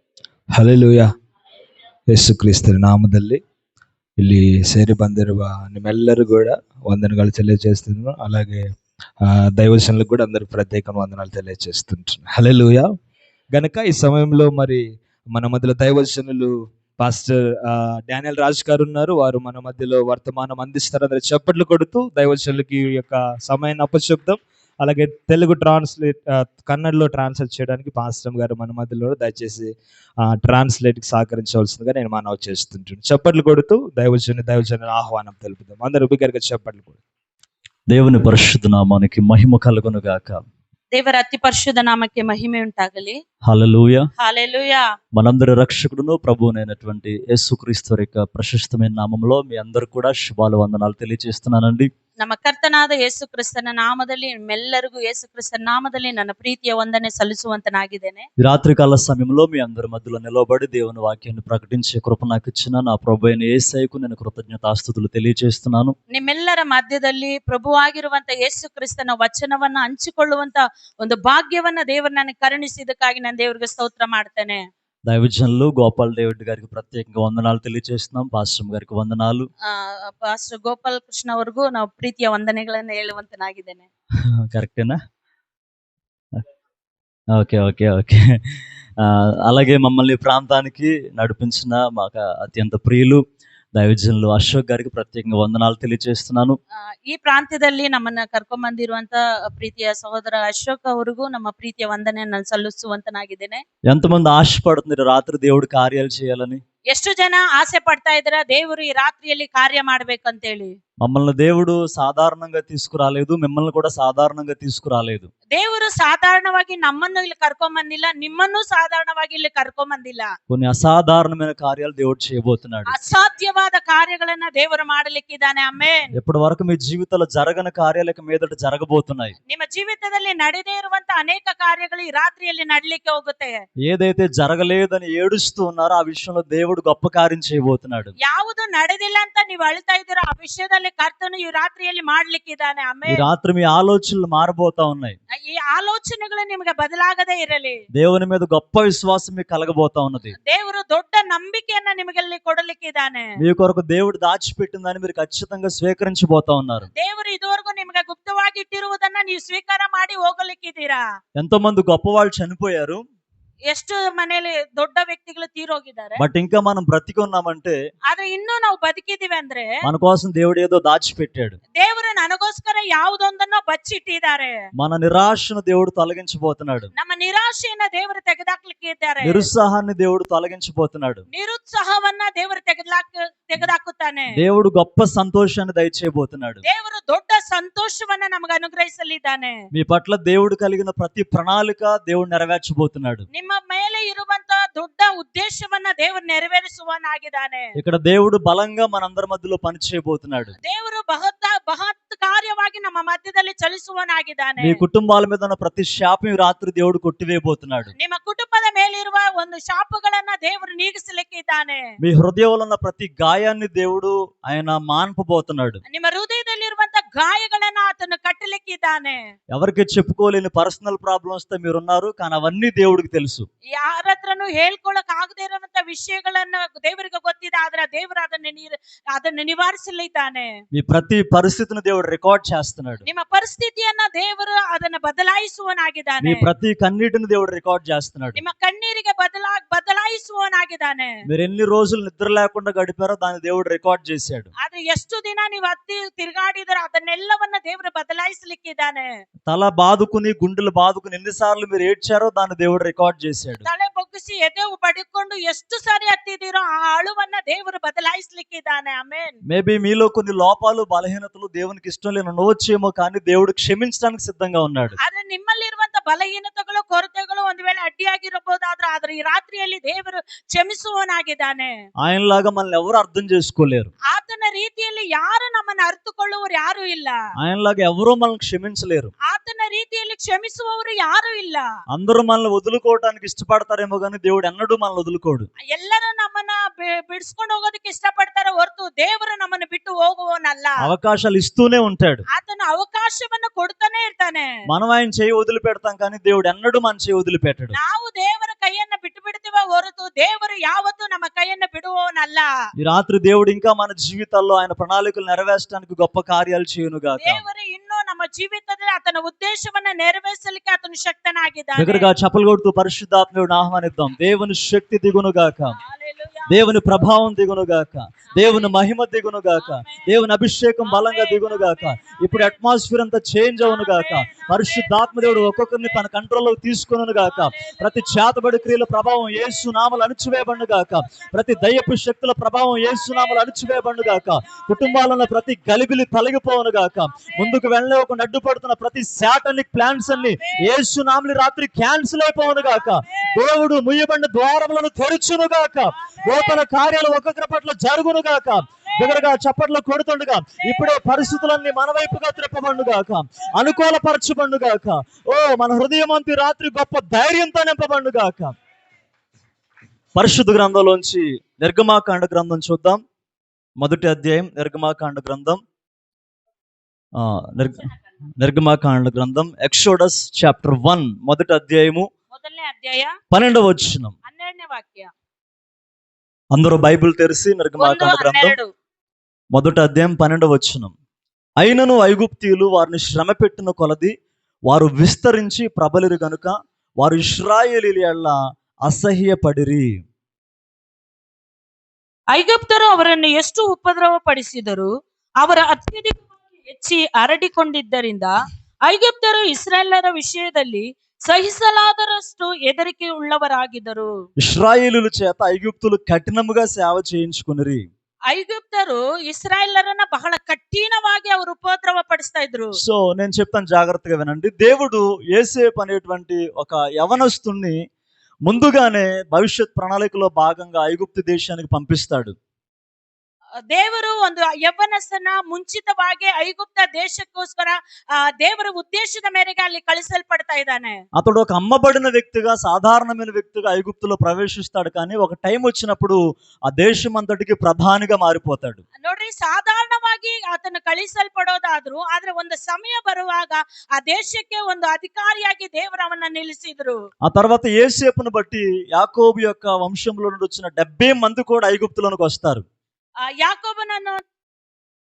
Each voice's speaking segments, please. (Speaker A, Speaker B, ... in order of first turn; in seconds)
Speaker A: 0.5-1.1, 2.1-3.4, 4.2-8.7, 9.2-12.9, 13.5-14.8, 15.3-29.7, 30.2-37.0
Speaker B: 37.9-40.4, 43.4-44.1, 45.1-51.9, 58.4-65.9, 75.0-79.5, 84.5-85.0, 87.3-88.3, 89.0-93.2, 93.7-96.6, 103.9-106.6, 111.0-115.3, 120.5-122.9, 126.1-129.3, 133.8-138.1, 143.1-145.2, 147.9-150.3, 153.4-156.9, 161.3-163.0, 166.2-167.8, 169.8-171.6, 174.8-176.9, 179.2-181.2, 184.3-186.6, 189.7-193.2, 197.8-200.5, 204.6-207.9, 212.0-215.8, 219.5-223.5, 230.7-233.0, 236.2-238.4, 241.3-244.5, 249.5-253.7, 259.5-265.0, 272.0-273.9, 277.4-279.1, 281.9-285.5, 290.8-292.2, 294.7-297.8, 302.8-307.4, 311.8-315.8, 316.5-358.5, 360.1-363.0, 363.8-365.6, 367.1-367.9, 368.4-372.1, 373.3-374.1, 376.5-378.6, 379.5-380.9, 381.6-384.1, 384.7-390.0, 404.4-407.9, 412.8-417.8, 418.4-422.3, 431.1-438.8, 447.2-452.6
Speaker C: 40.9-43.2, 44.2-44.8, 52.2-58.3, 66.1-74.6, 79.6-83.8, 96.9-103.6, 106.9-110.8, 115.5-120.3, 122.9-126.1, 129.5-133.6, 138.2-143.2, 145.3-147.8, 150.4-153.3, 156.9-161.0, 163.7-166.2, 168.1-169.7, 171.7-174.6, 176.9-179.5, 181.3-184.3, 186.6-189.6, 193.3-197.7, 200.6-204.8, 207.9-211.8, 215.8-219.2, 223.7-230.5, 233.0-236.4, 238.3-241.1, 244.6-249.1, 253.6-259.4, 265.0-271.7, 274.1-277.2, 279.2-281.6, 285.7-290.8, 292.3-294.5, 297.7-302.5, 307.2-312.1, 315.7-316.6, 319.6-320.1, 320.8-322.5, 323.6-326.0, 327.2-328.1, 332.9-335.0, 337.2-337.6, 340.1-340.6, 342.6-343.3, 345.9-346.6, 348.8-349.2, 350.6-351.7, 367.8-368.1, 372.3-373.1, 374.2-375.1, 377.8-378.7, 392.3-394.9, 395.4-398.3, 398.8-404.1, 408.3-412.7, 423.7-431.0, 439.0-447.0, 453.4-454.2